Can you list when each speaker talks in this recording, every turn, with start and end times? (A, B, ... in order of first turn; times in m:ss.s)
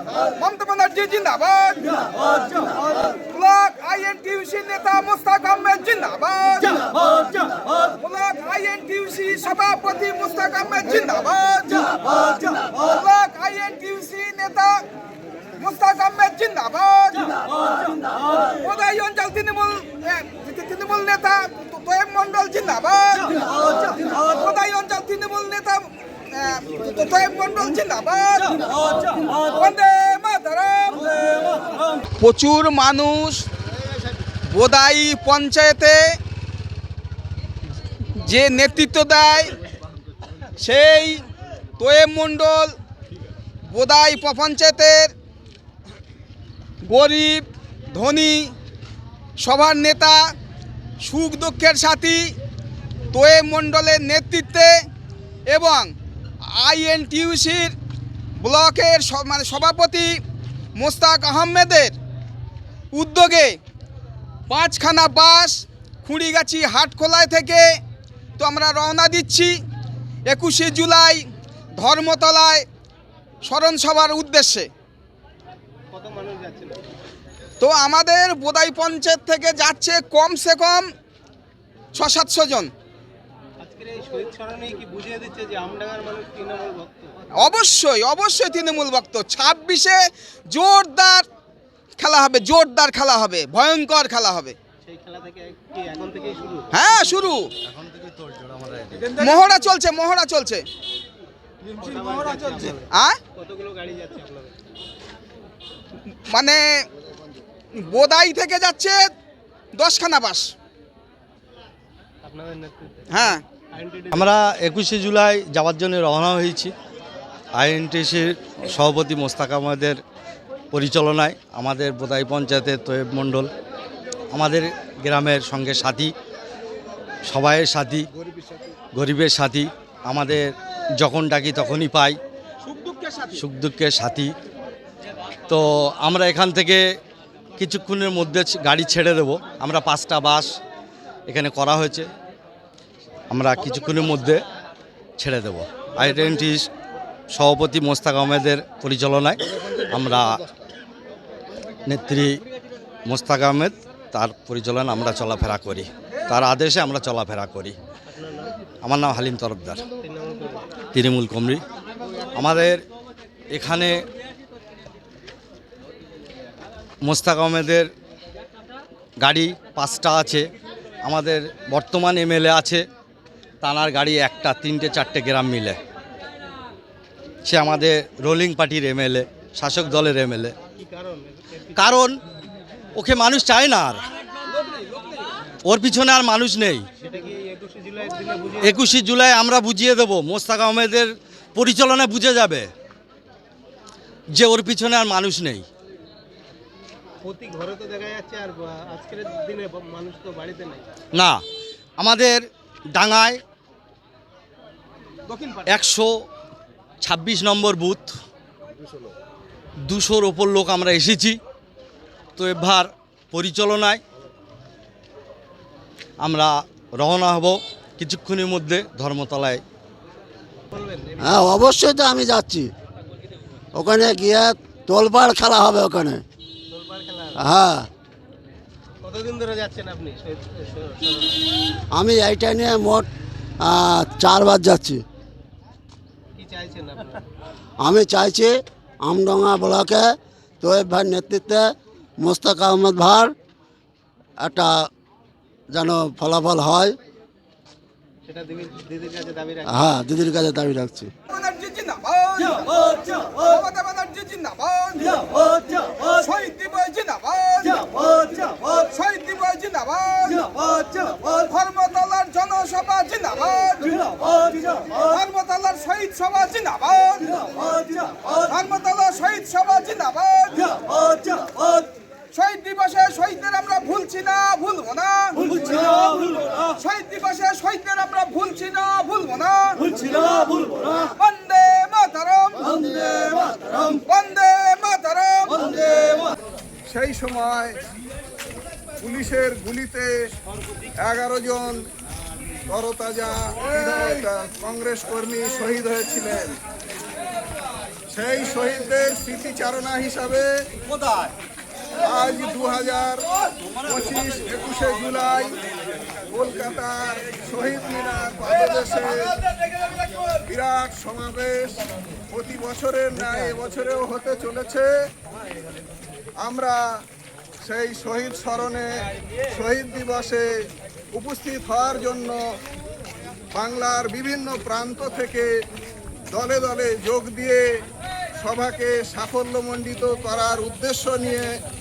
0:00.4-0:01.9 A
0:01.9-0:03.2 B
0:02.6-0:14.8 A
0:11.9-0:12.9 B
0:15.6-0:17.4 A
0:18.4-0:18.6 B
0:18.6-0:23.4 A
0:23.3-0:24.3 B
0:24.1-0:28.7 A
0:29.5-0:31.1 A
0:31.0-0:31.6 B
0:32.2-0:33.5 A
0:34.5-0:36.2 A
0:38.2-0:39.6 A
0:40.6-0:41.2 A
0:41.8-0:42.8 A
0:43.7-0:45.1 A
0:46.8-0:48.5 A
0:49.4-0:50.4 A
0:51.0-0:52.4 A
0:53.1-0:54.9 A
0:55.5-0:55.9 A
0:56.5-0:57.8 A
0:58.4-1:00.2 A
1:00.8-1:02.0 A
1:02.9-1:03.6 A
1:04.5-1:07.8 A
1:08.4-1:09.6 A
1:10.3-1:12.7 A
1:13.4-1:14.7 A
1:15.9-1:16.8 C
1:17.6-1:20.9 A
1:21.9-1:22.7 A
1:23.6-1:27.2 C
1:27.4-1:31.3 A
1:32.0-1:34.6 A
1:34.8-1:36.9 C
1:36.7-1:37.5 A
1:37.7-1:39.4 B
1:39.0-1:40.6 A
1:41.7-1:44.6 C
1:42.9-1:43.2 A
1:46.3-1:46.9 A
1:47.8-1:49.1 A
1:49.7-1:50.5 A
1:52.2-1:54.3 C
1:53.1-1:53.4 A
1:54.1-1:56.7 B
1:57.6-2:00.0 B
2:00.7-2:03.5 B
2:04.3-2:06.1 B
2:07.3-2:08.1 B
2:09.0-2:12.2 B
2:12.7-2:14.3 B
2:15.5-2:16.8 B
2:17.6-2:20.5 B
2:21.3-2:22.1 B
2:23.3-2:24.4 B
2:25.2-2:26.7 B
2:27.3-2:30.3 B
2:31.9-2:32.4 B
2:33.1-2:37.8 B
2:38.1-2:38.5 C
2:38.8-2:39.8 B
2:40.0-2:40.7 C
2:40.9-2:41.6 B
2:42.3-2:42.8 B
2:43.5-2:44.0 B
2:47.0-2:47.9 B
2:49.2-2:50.5 B
2:51.0-2:52.8 B
2:53.6-2:55.8 B
2:57.4-3:00.6 B
3:00.8-3:02.0 C
3:01.8-3:02.2 B
3:03.0-3:04.0 B
3:05.6-3:06.9 B
3:07.0-3:08.8 C
3:08.6-3:12.7 B
3:14.4-3:15.7 B
3:17.2-3:20.9 C
3:21.2-3:21.4 B
3:22.0-3:23.4 B
3:25.7-3:26.1 B
3:27.0-3:28.1 B
3:29.8-3:31.4 B
3:32.4-3:34.0 B
3:36.2-3:39.6 B
3:40.7-3:41.7 C
3:41.2-3:42.7 D
3:43.7-3:46.2 D
3:46.7-3:47.5 C
3:47.4-3:47.9 D
3:49.0-3:51.4 C
3:52.0-3:53.1 D
3:53.6-3:55.0 D
3:56.4-3:57.2 C
3:57.8-4:03.3 D
4:04.4-4:04.9 D
4:05.7-4:07.0 D
4:08.2-4:09.8 C
4:09.7-4:11.1 D
4:11.3-4:12.8 A
4:12.6-4:13.5 B
4:13.4-4:15.2 A
4:15.0-4:16.2 B
4:16.1-4:20.6 A
4:17.8-4:18.7 B
4:20.4-4:21.5 B
4:21.2-4:27.4 A
4:23.9-4:25.0 B
4:27.3-4:28.3 B
4:28.2-4:30.7 A
4:30.6-4:31.9 B
4:32.3-4:39.8 A
4:35.5-4:36.7 B
4:40.0-4:41.1 B
4:41.1-4:42.8 A
4:42.7-4:44.0 B
4:44.0-4:45.6 A
4:45.6-4:46.2 B
4:46.9-4:47.8 E
4:49.0-4:50.1 E
4:51.0-4:51.8 E
4:52.7-4:56.6 E
4:58.1-5:00.6 E
5:02.0-5:03.3 E
5:03.8-5:05.6 E
5:06.3-5:09.4 E
5:10.4-5:14.9 E
5:16.4-5:17.0 E
5:17.6-5:20.5 E
5:21.1-5:22.4 E
5:23.5-5:25.5 E
5:26.3-5:27.7 E
5:28.4-5:31.6 E